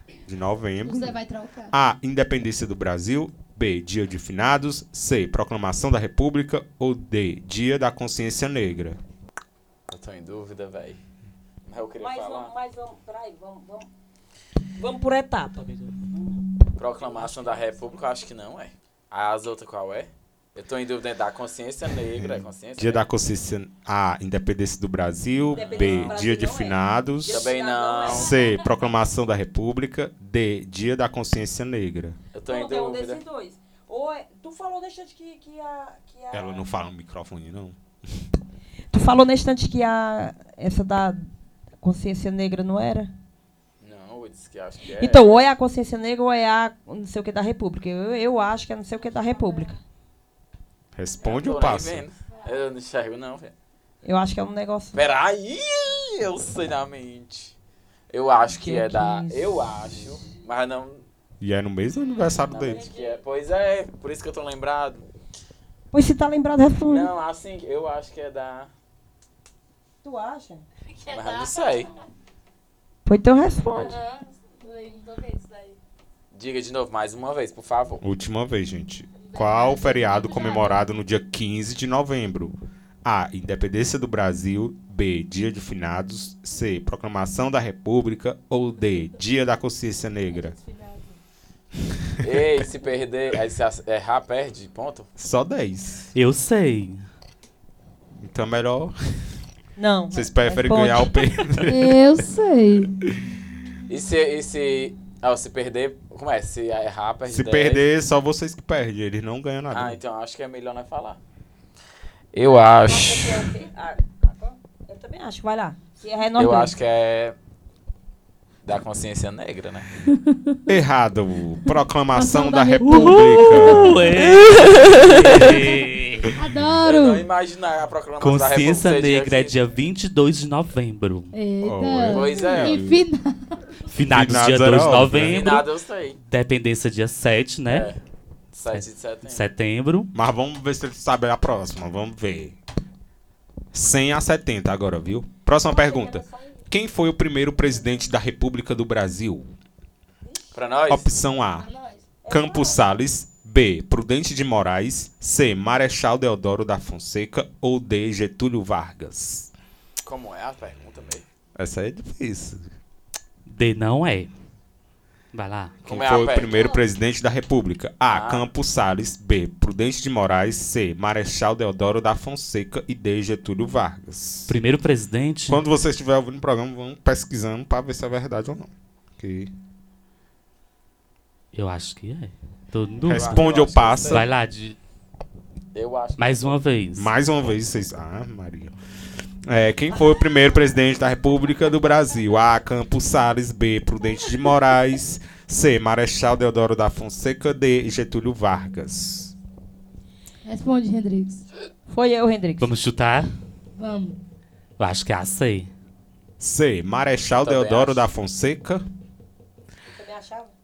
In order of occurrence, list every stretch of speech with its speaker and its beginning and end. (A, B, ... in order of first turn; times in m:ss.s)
0:00.3-0:01.2 A
0:00.8-0:01.7 B
0:01.7-0:09.0 A
0:09.9-0:11.0 C
0:11.7-0:12.5 C
0:12.0-0:13.9 D
0:14.8-0:15.7 D
0:15.7-0:16.0 E
0:16.8-0:23.1 C
0:17.0-0:17.9 D
0:22.2-0:27.5 A
0:25.5-0:28.4 D
0:25.6-0:26.2 C
0:27.3-0:28.3 C
0:28.1-0:32.2 A
0:32.3-0:33.2 C
0:32.4-0:36.7 D
0:36.3-0:37.8 A
0:38.9-0:41.3 D
0:41.8-0:43.1 D
0:43.8-0:45.5 C
0:45.0-0:49.8 D
0:51.0-0:52.0 A
0:51.2-0:53.5 C
0:52.3-0:52.6 F
0:54.0-0:55.0 D
0:54.9-0:57.5 C
0:58.1-1:01.0 C
0:58.5-0:59.6 D
1:01.4-1:02.8 A
1:02.2-1:03.2 F
1:02.5-1:05.0 C
1:05.9-1:07.1 D
1:06.9-1:08.7 C
1:10.0-1:10.6 D
1:10.9-1:11.9 F
1:11.1-1:11.9 C
1:13.1-1:14.0 D
1:13.8-1:15.8 F
1:16.3-1:18.0 C
1:18.0-1:30.6 A
1:19.2-1:20.8 F
1:30.3-1:31.2 F
1:32.2-1:35.1 C
1:35.2-1:36.1 A
1:36.2-1:37.0 E
1:38.2-1:38.9 A
1:39.8-1:41.2 D
1:40.1-1:42.0 A
1:41.7-1:42.9 B
1:43.9-1:47.8 C
1:47.3-1:50.0 A
1:49.7-1:51.2 C
1:52.3-1:53.5 C
1:52.8-1:56.7 D
1:56.4-1:57.4 C
1:58.6-1:59.9 C
2:00.7-2:04.4 A
2:02.1-2:04.1 B
2:02.8-2:06.3 E
2:06.4-2:07.3 B
2:06.8-2:09.6 C
2:08.2-2:11.3 E
2:11.3-2:13.6 B
2:11.6-2:13.0 A
2:12.1-2:12.9 C
2:13.9-2:15.7 E
2:14.1-2:15.4 A
2:15.1-2:16.2 C
2:16.3-2:17.9 E
2:17.7-2:18.0 C
2:18.5-2:19.4 C
2:18.7-2:20.1 E
2:20.1-2:22.6 A
2:23.7-2:29.5 A
2:25.7-2:26.6 D
2:30.2-2:30.7 D
2:30.5-2:31.1 C
2:30.9-2:31.7 A
2:31.6-2:32.2 F
2:32.2-2:33.0 D
2:32.3-2:39.5 A
2:40.0-2:41.2 C
2:41.6-2:42.6 A
2:43.5-2:44.3 E
2:45.3-2:45.8 E
2:45.8-2:46.6 C
2:45.9-2:54.6 A
2:46.5-2:46.8 F
2:48.1-2:48.5 C
2:54.5-2:55.6 E
2:55.5-2:59.5 A
3:01.5-3:03.5 E
3:03.0-3:04.2 A
3:03.1-3:04.3 C
3:04.1-3:04.8 E
3:05.7-3:06.6 C
3:06.2-3:07.1 E
3:07.0-3:08.7 A
3:09.5-3:19.3 A
3:20.5-3:21.4 B
3:21.9-3:22.7 D
3:22.6-3:23.3 E
3:23.8-3:24.2 B
3:24.8-3:25.7 E
3:26.4-3:28.8 A
3:27.4-3:28.1 C
3:30.0-3:30.5 D